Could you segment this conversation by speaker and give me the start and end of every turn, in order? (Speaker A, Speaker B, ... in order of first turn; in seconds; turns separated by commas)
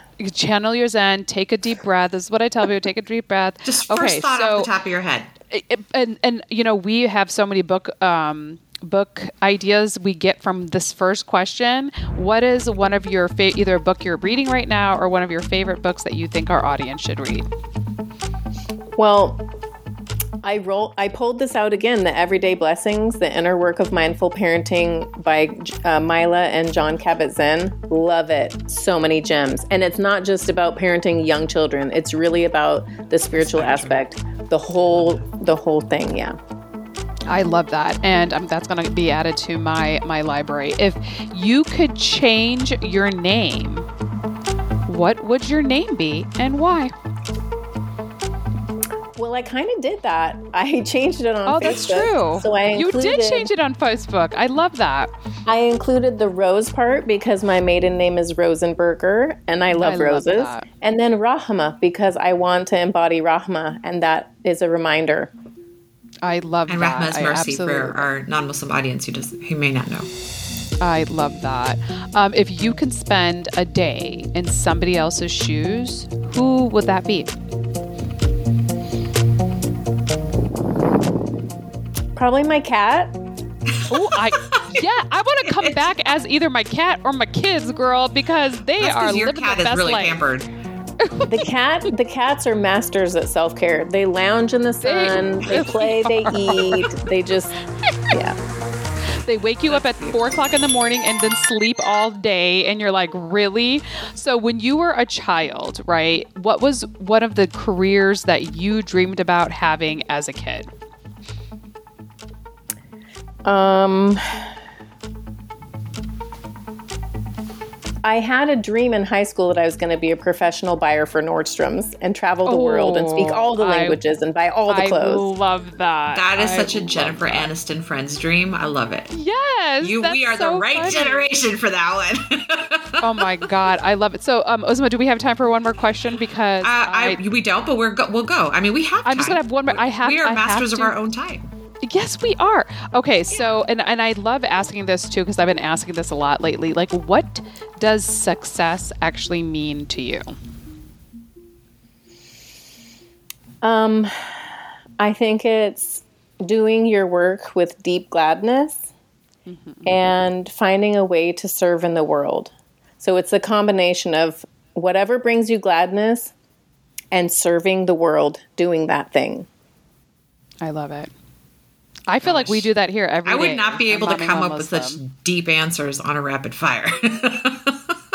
Speaker A: 0.2-4.7, Speaker B: 3.6-5.3, Speaker A: 5.5-17.4, Speaker C: 18.9-19.4, Speaker C: 20.4-36.4, Speaker B: 33.4-34.0, Speaker B: 34.9-35.2, Speaker A: 37.3-43.9, Speaker A: 44.9-46.9, Speaker C: 49.1-53.5, Speaker A: 51.5-55.1, Speaker C: 55.5-65.3, Speaker A: 59.7-60.6, Speaker A: 66.2-68.1, Speaker B: 66.7-70.1, Speaker A: 70.8-77.3, Speaker C: 82.1-83.2, Speaker B: 83.7-84.8, Speaker A: 83.9-90.2, Speaker B: 85.5-86.0, Speaker B: 88.8-90.5, Speaker A: 91.0-91.3, Speaker C: 91.2-97.5, Speaker A: 94.8-96.9, Speaker C: 98.1-98.3, Speaker A: 99.2-110.7, Speaker B: 99.7-100.4, Speaker C: 113.4-114.5, Speaker C: 118.0-125.2, Speaker A: 122.5-124.0, Speaker A: 124.7-127.5, Speaker B: 126.1-129.1, Speaker A: 129.1-131.2, Speaker B: 129.8-133.3, Speaker A: 133.0-137.2, Speaker B: 136.6-141.5, Speaker A: 139.0-140.9, Speaker A: 141.8-150.3, Speaker B: 143.3-143.6, Speaker C: 153.6-158.9, Speaker A: 159.4-159.9, Speaker C: 159.8-166.3, Speaker C: 167.1-169.5, Speaker A: 170.6-171.1, Speaker A: 172.1-175.0, Speaker B: 172.2-172.7, Speaker B: 173.2-177.9